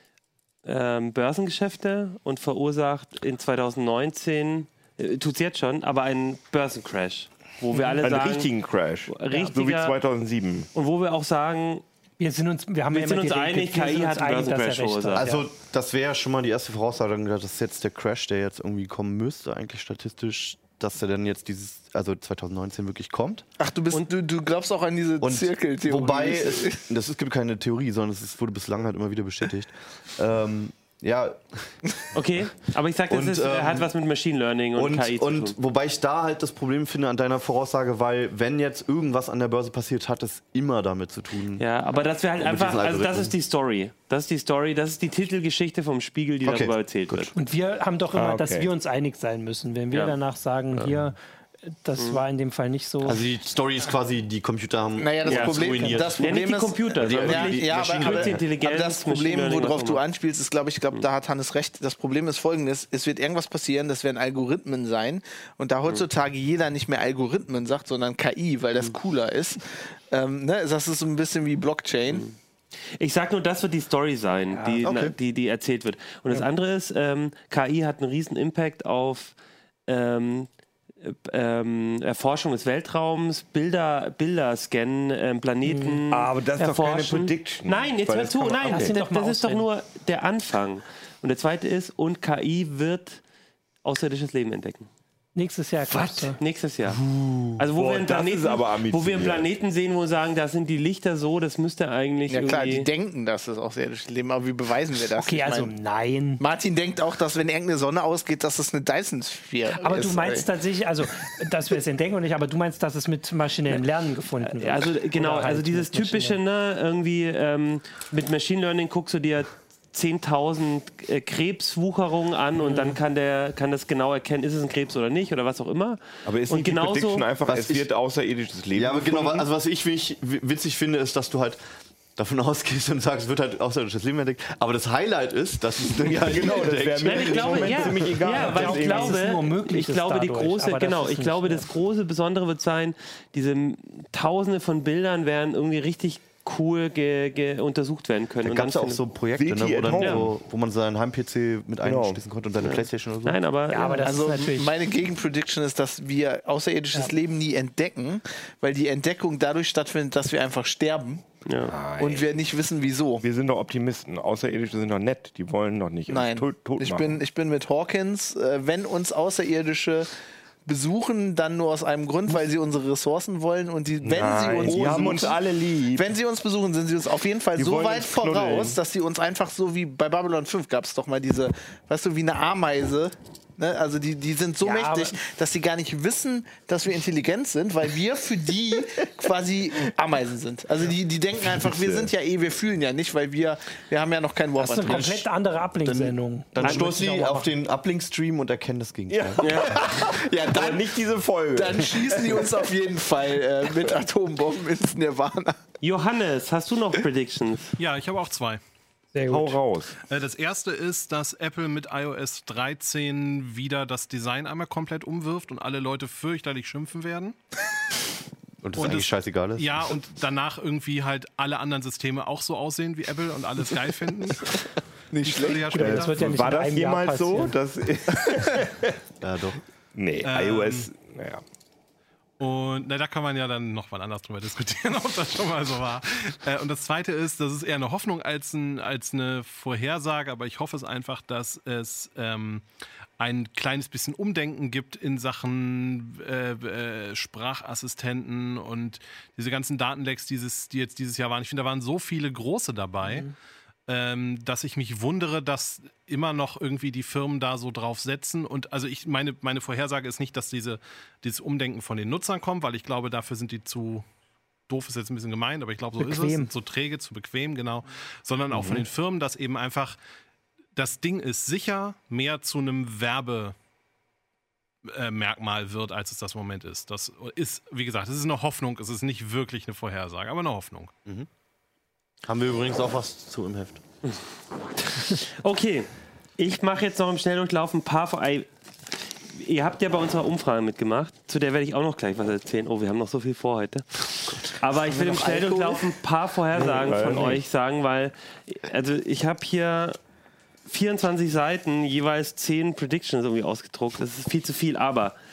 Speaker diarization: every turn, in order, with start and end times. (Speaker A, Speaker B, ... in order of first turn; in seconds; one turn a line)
Speaker A: 0.7-8.5
Speaker B: 7.7-8.0
Speaker C: 8.0-10.7
Speaker A: 9.1-10.0
Speaker A: 10.7-11.8
Speaker B: 12.2-15.4
Speaker A: 12.9-15.3
Speaker D: 15.1-23.4
Speaker E: 23.6-26.8
Speaker D: 25.2-31.9
Speaker A: 32.1-35.5
Speaker D: 33.1-33.9
Speaker D: 34.8-41.6
Speaker A: 41.6-47.3
Speaker D: 42.4-43.4
Speaker D: 46.4-47.3
Speaker B: 47.4-53.2
Speaker C: 48.1-48.7
Speaker D: 53.0-58.4
Speaker E: 55.0-72.3
Speaker A: 55.2-55.6
Speaker A: 56.2-60.0
Speaker A: 73.0-79.3
Speaker B: 74.5-74.8
Speaker D: 74.8-75.2
Speaker A: 79.9-80.5
Speaker A: 81.0-93.2
Speaker B: 85.7-86.0
Speaker C: 86.1-89.0
Speaker B: 88.7-89.7
Speaker A: 93.8-94.9
Speaker B: 95.4-96.4
Speaker A: 95.9-97.0
Speaker C: 96.9-99.5
Speaker A: 97.6-102.9
Speaker E: 102.3-105.7
Speaker B: 105.2-106.4
Speaker E: 106.4-110.5
Speaker B: 109.8-116.4
Speaker A: 114.4-127.3
Speaker B: 122.6-123.0
Speaker C: 126.3-129.5
Speaker D: 127.5-127.9
Speaker D: 128.7-131.6
Speaker D: 132.2-138.1
Speaker C: 135.9-139.2
Speaker A: 137.1-149.0
Speaker B: 138.2-141.7
Speaker D: 148.4-153.4
Speaker C: 149.4-150.3
Speaker A: 150.0-150.2
Speaker C: 151.8-152.2
Speaker A: 152.6-154.1
Speaker B: 153.7-154.7
Speaker E: 154.0-161.2
Speaker A: 161.5-161.7
Speaker C: 161.7-162.3
Speaker E: 162.0-163.2
Speaker C: 163.2-167.2
Speaker E: 166.1-170.1
Speaker E: 170.7-195.3
Speaker C: 174.0-176.1
Speaker C: 177.6-178.8
Speaker B: 184.6-185.2
Speaker C: 191.6-192.1
Speaker B: 194.6-197.5
Speaker D: 195.8-199.9
Speaker C: 199.1-202.5
Speaker A: 199.4-199.8
Speaker E: 199.6-201.0
Speaker E: 201.5-205.6
Speaker A: 205.8-207.8
Speaker F: 207.8-208.6
Speaker B: 209.1-209.6
Speaker C: 209.3-210.0
Speaker F: 210.1-217.3
Speaker D: 218.6-219.9
Speaker F: 218.8-224.6
Speaker E: 225.1-225.8
Speaker F: 225.2-226.4
Speaker B: 225.7-227.6
Speaker C: 225.8-229.0
Speaker D: 229.2-229.6
Speaker C: 229.9-231.4
Speaker F: 230.2-230.9
Speaker F: 232.4-242.7
Speaker F: 243.2-253.3
Speaker B: 253.0-253.3
Speaker F: 253.9-264.1
Speaker F: 264.7-270.0
Speaker B: 266.0-266.5
Speaker F: 270.8-273.6
Speaker F: 274.9-280.9
Speaker D: 282.2-283.8
Speaker A: 284.8-288.5
Speaker A: 289.2-300.0
Speaker E: 294.8-295.9
Speaker C: 296.6-297.4
Speaker A: 300.7-305.2